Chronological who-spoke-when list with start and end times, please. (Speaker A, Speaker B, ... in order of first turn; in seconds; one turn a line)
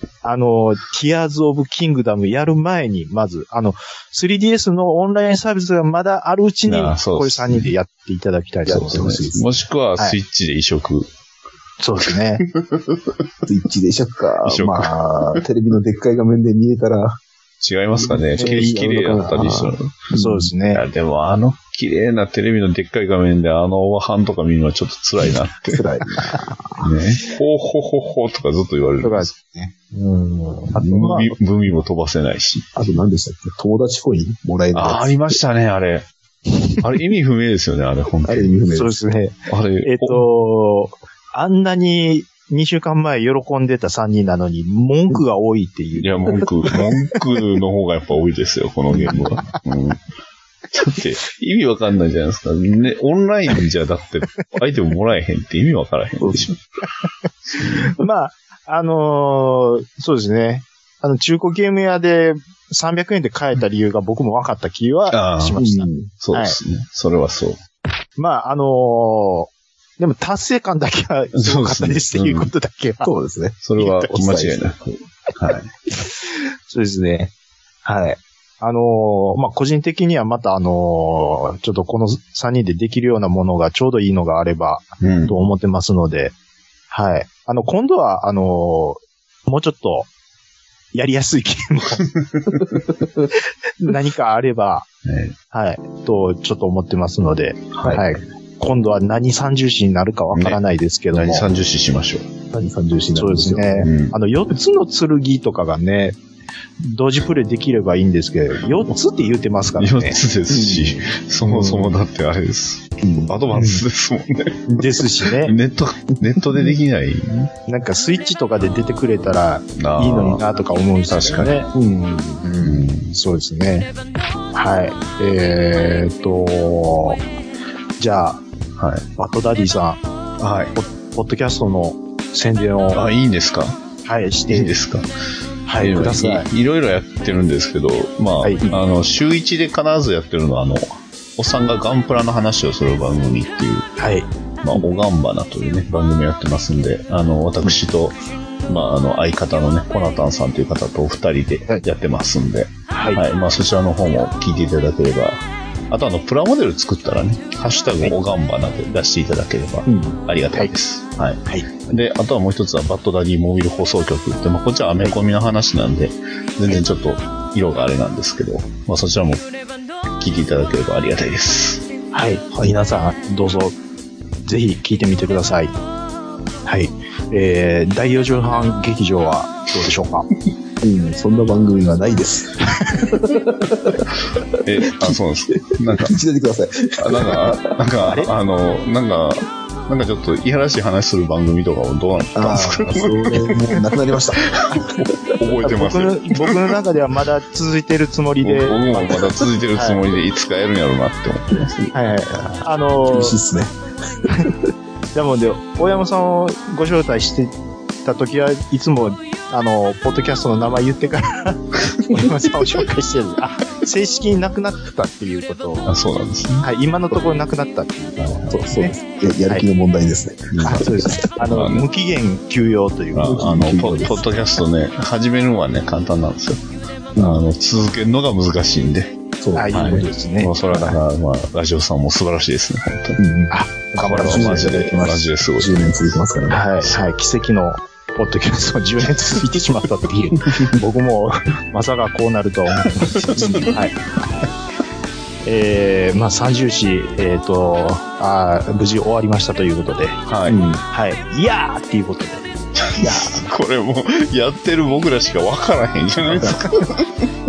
Speaker A: 0.2-9.0
Speaker B: 6.7-7.7
Speaker C: 8.7-9.5
Speaker B: 8.7-11.1
Speaker A: 11.8-12.4
Speaker B: 12.4-13.1
Speaker C: 13.4-17.2
Speaker B: 14.4-15.4
Speaker B: 17.6-20.1
Speaker C: 18.0-20.5
Speaker A: 18.4-18.9
Speaker A: 20.1-20.8
Speaker B: 20.7-25.8
Speaker C: 25.7-26.6
Speaker B: 26.8-29.3
Speaker A: 29.0-31.3
Speaker B: 30.8-32.8
Speaker C: 30.8-31.2
Speaker C: 32.8-35.2
Speaker B: 34.7-36.1
Speaker B: 36.8-38.5
Speaker C: 38.3-39.0
Speaker A: 38.7-46.1
Speaker B: 39.5-40.2
Speaker B: 46.0-50.0
Speaker C: 48.9-49.2
Speaker B: 50.7-56.6
Speaker C: 56.2-56.5
Speaker B: 57.6-57.9
Speaker A: 57.6-66.6
Speaker B: 65.1-65.6
Speaker C: 65.6-66.1
Speaker B: 66.1-67.6
Speaker A: 68.2-73.1
Speaker B: 71.3-72.5
Speaker C: 73.0-74.7
Speaker B: 73.6-75.7
Speaker A: 73.8-74.1
Speaker A: 76.7-77.3
Speaker A: 77.8-86.3
Speaker B: 85.0-85.5
Speaker A: 86.9-90.1
Speaker A: 90.9-92.0
Speaker B: 92.2-92.6
Speaker A: 93.8-94.9
Speaker B: 95.0-95.3
Speaker A: 95.5-101.5
Speaker B: 97.7-98.0
Speaker B: 100.3-100.6
Speaker B: 101.1-102.3
Speaker C: 102.5-103.9
Speaker A: 103.2-106.2
Speaker B: 103.8-104.2
Speaker A: 106.8-110.2
Speaker B: 109.8-114.8
Speaker C: 110.5-111.9
Speaker C: 113.0-113.3
Speaker A: 113.5-113.8
Speaker A: 114.7-115.5
Speaker B: 115.4-117.5
Speaker A: 117.7-121.7
Speaker B: 119.8-120.4
Speaker B: 121.1-121.6
Speaker C: 121.7-122.4
Speaker B: 122.4-123.1
Speaker A: 123.0-123.9
Speaker A: 124.5-127.2
Speaker A: 128.0-128.4
Speaker B: 128.8-129.1
Speaker A: 129.2-130.0
Speaker B: 130.4-130.8
Speaker A: 130.7-133.0
Speaker B: 132.9-133.8
Speaker A: 134.0-134.7
Speaker B: 134.5-135.1
Speaker A: 135.7-136.5
Speaker B: 135.8-143.9
Speaker A: 144.0-144.3
Speaker B: 144.6-169.4
Speaker A: 152.9-153.2
Speaker C: 159.9-160.2
Speaker A: 161.4-161.7
Speaker B: 170.1-171.8
Speaker A: 172.1-173.8
Speaker A: 174.4-175.8
Speaker A: 176.7-180.3
Speaker C: 180.8-184.1
Speaker A: 182.6-183.1
Speaker B: 184.6-186.1
Speaker C: 184.9-185.2
Speaker C: 186.0-187.7
Speaker B: 187.0-193.8
Speaker C: 192.3-194.6
Speaker B: 194.4-196.5
Speaker A: 195.6-200.0
Speaker B: 198.4-202.6
Speaker A: 201.9-203.4
Speaker C: 203.1-203.8
Speaker A: 205.1-215.9
Speaker B: 215.8-216.7
Speaker A: 216.6-219.0
Speaker B: 218.2-218.6
Speaker C: 218.5-221.2
Speaker B: 220.5-220.8
Speaker A: 220.6-223.5
Speaker B: 221.5-221.8
Speaker B: 223.1-226.6
Speaker C: 223.2-224.2
Speaker C: 227.1-227.4
Speaker B: 227.2-229.2
Speaker C: 229.4-230.1
Speaker A: 229.5-231.0
Speaker B: 229.7-233.2
Speaker C: 233.2-233.5
Speaker A: 233.5-235.3
Speaker B: 234.0-236.1
Speaker C: 234.2-236.6
Speaker A: 236.5-244.0
Speaker B: 243.0-243.7
Speaker C: 243.2-243.8
Speaker A: 245.4-250.2
Speaker B: 250.2-250.6
Speaker C: 250.5-250.8
Speaker A: 250.9-252.4
Speaker B: 252.8-257.1
Speaker A: 253.0-253.4
Speaker C: 256.3-256.6